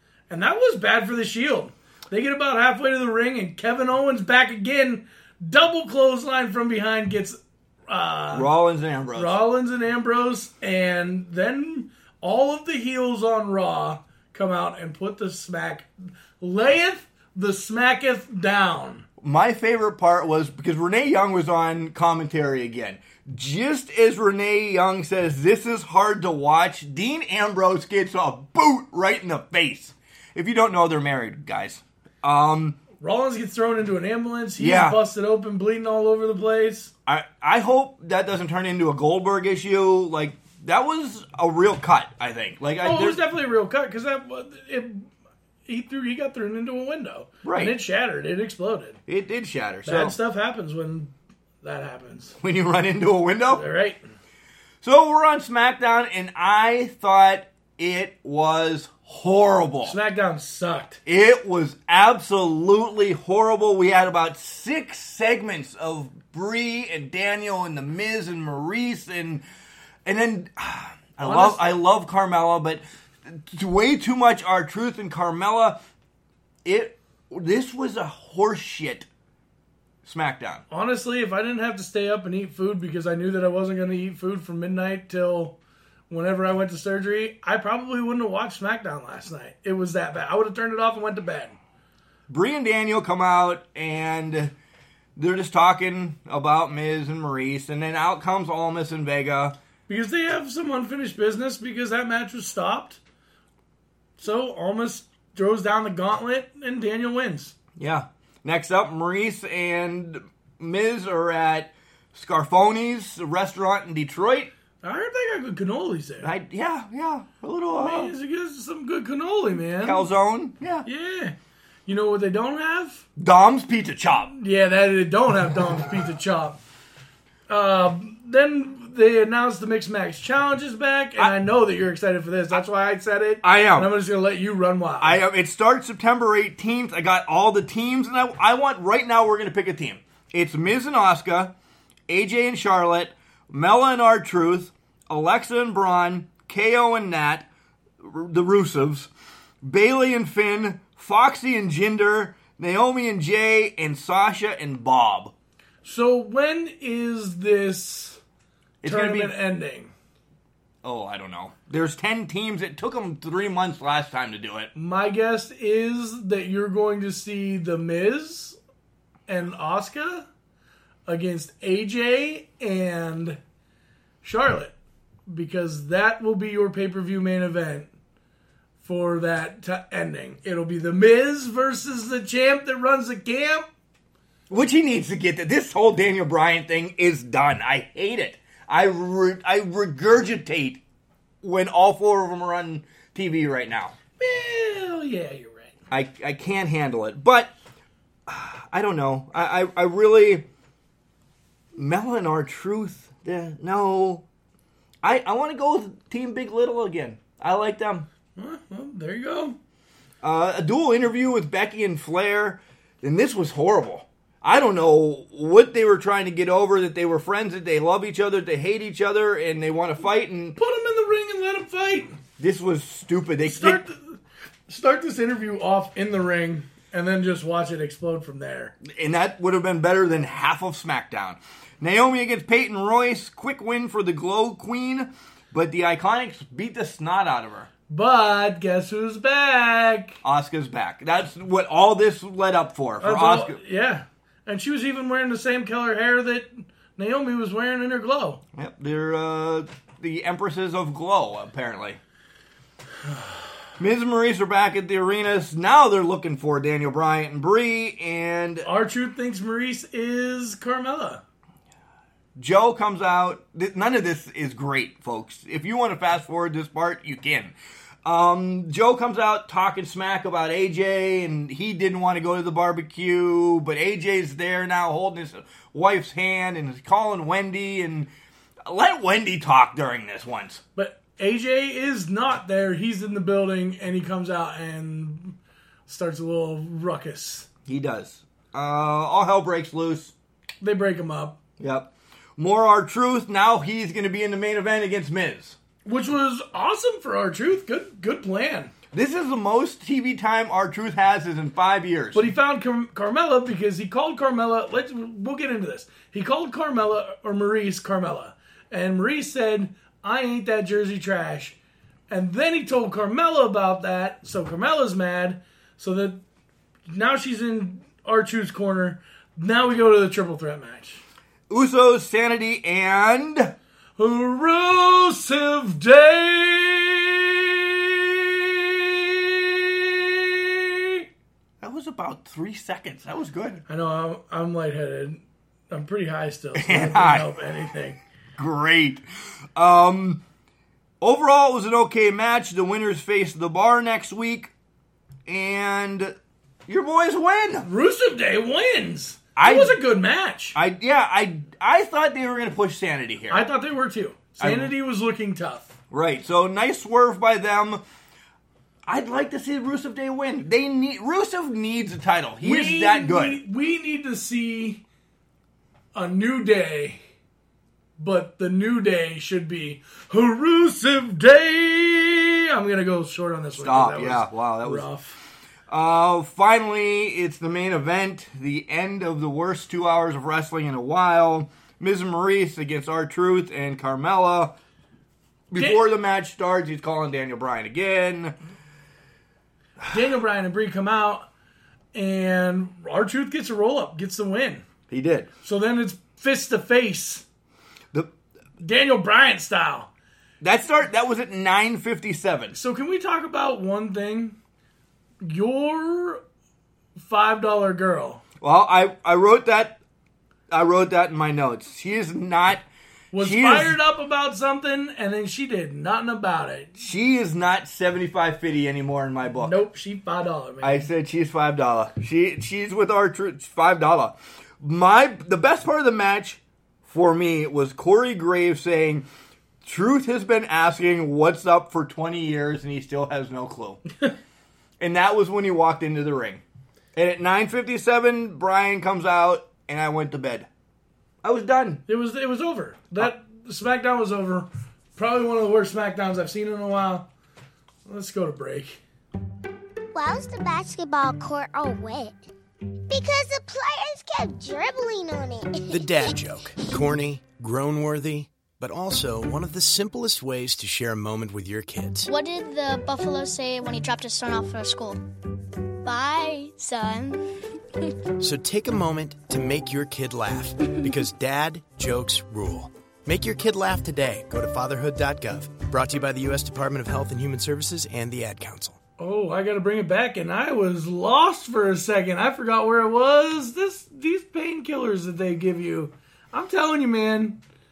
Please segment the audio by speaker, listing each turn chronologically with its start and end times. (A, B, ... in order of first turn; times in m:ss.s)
0:00.3-0:08.5 A
0:08.3-0:09.4 B
0:09.2-0:19.0 A
0:19.2-0:32.8 B
0:33.0-0:36.9 A
0:34.6-0:35.0 B
0:37.1-0:43.2 B
0:42.8-0:45.1 A
0:45.7-0:49.0 A
0:47.4-0:47.8 B
0:49.1-0:50.2 B
0:49.8-0:52.4 A
0:52.4-0:53.7 B
0:53.5-0:54.0 A
0:54.8-1:00.0 B
0:59.8-1:01.0 A
1:01.1-1:09.4 B
1:10.0-1:15.8 B
1:11.2-1:11.6 A
1:16.6-1:19.1 B
1:20.0-1:20.6 B
1:20.7-1:25.6 A
1:26.1-1:31.6 A
1:32.3-1:34.5 B
1:35.2-1:39.6 B
1:39.9-1:43.0 A
1:44.2-1:47.5 A
1:47.8-1:54.5 B
1:54.8-1:56.3 A
1:56.2-1:58.2 B
1:57.8-2:00.1 A
1:59.8-2:00.9 B
2:00.8-2:03.1 A
2:03.2-2:04.3 B
2:04.3-2:06.6 A
2:07.5-2:15.2 A
2:13.4-2:13.9 B
2:15.0-2:21.5 B
2:22.1-2:27.5 B
2:28.0-2:29.1 B
2:29.6-2:35.3 B
2:35.8-2:38.2 A
2:38.8-2:39.3 B
2:38.8-2:39.9 A
2:40.8-2:44.7 B
2:44.8-2:48.6 A
2:49.3-2:50.3 A
2:51.1-2:53.4 A
2:54.2-2:54.8 A
2:55.3-2:57.9 A
2:58.8-3:03.7 A
3:04.5-3:10.8 B
3:11.4-3:14.0 B
3:14.2-3:15.8 A
3:15.9-3:17.5 B
3:18.3-3:20.5 B
3:21.8-3:24.2 B
3:25.0-3:28.1 B
3:28.4-3:29.6 A
3:30.2-3:40.6 B
3:40.6-3:42.2 A
3:42.4-3:43.8 B
3:43.5-3:48.7 A
3:48.8-3:57.7 B
3:57.9-4:00.2 A
4:00.2-4:03.6 B
4:03.0-4:08.4 A
4:08.5-4:12.0 B
4:13.8-4:18.7 B
4:18.6-4:21.2 A
4:22.4-4:38.1 B
4:38.7-4:40.6 B
4:40.8-4:47.5 A
4:47.7-4:50.2 B
4:50.6-4:51.4 A
4:51.6-4:55.6 B
4:55.8-4:58.7 A
4:58.9-5:02.3 B
5:02.1-5:11.6 A
5:12.1-5:16.2 A
5:16.9-5:21.0 A
5:21.5-5:23.6 B
5:24.0-5:31.0 A
5:31.6-5:33.6 B
5:33.7-5:38.0 A
5:36.5-5:37.3 B
5:38.4-5:40.2 B
5:41.0-5:44.5 B
5:45.3-5:46.2 B
5:46.7-5:47.7 B
5:47.6-5:50.6 A
5:49.4-5:49.8 B
5:50.6-5:53.5 B
5:53.3-5:55.7 A
5:54.4-5:54.7 B
5:55.9-5:57.8 B
5:58.9-6:03.4 B
6:02.4-6:04.8 A
6:06.0-6:07.0 A
6:08.0-6:15.2 A
6:13.5-6:14.9 B
6:15.7-6:24.6 B
6:25.5-6:28.4 B
6:29.9-6:31.3 A
6:31.9-6:34.7 A
6:34.9-6:35.3 B
6:35.4-6:37.2 A
6:38.6-6:39.9 A
6:40.4-6:42.6 B
6:42.5-6:44.4 A
6:45.2-6:46.2 A
6:47.0-6:48.2 A
6:48.4-6:49.8 B
6:50.5-6:53.8 B
6:53.1-6:56.9 A
6:56.8-6:59.6 B
6:59.4-7:00.9 A
7:00.6-7:09.1 B
7:09.6-7:13.8 B
7:14.8-7:16.4 B
7:17.0-7:20.5 B
7:21.2-7:21.8 B
7:21.9-7:27.1 A
7:27.9-7:28.8 A
7:29.9-7:32.2 C
7:32.9-7:36.2 C
7:35.7-7:42.1 D
7:42.0-7:45.0 E
7:45.8-7:47.4 E
7:48.2-7:58.8 D
7:59.0-8:07.4 A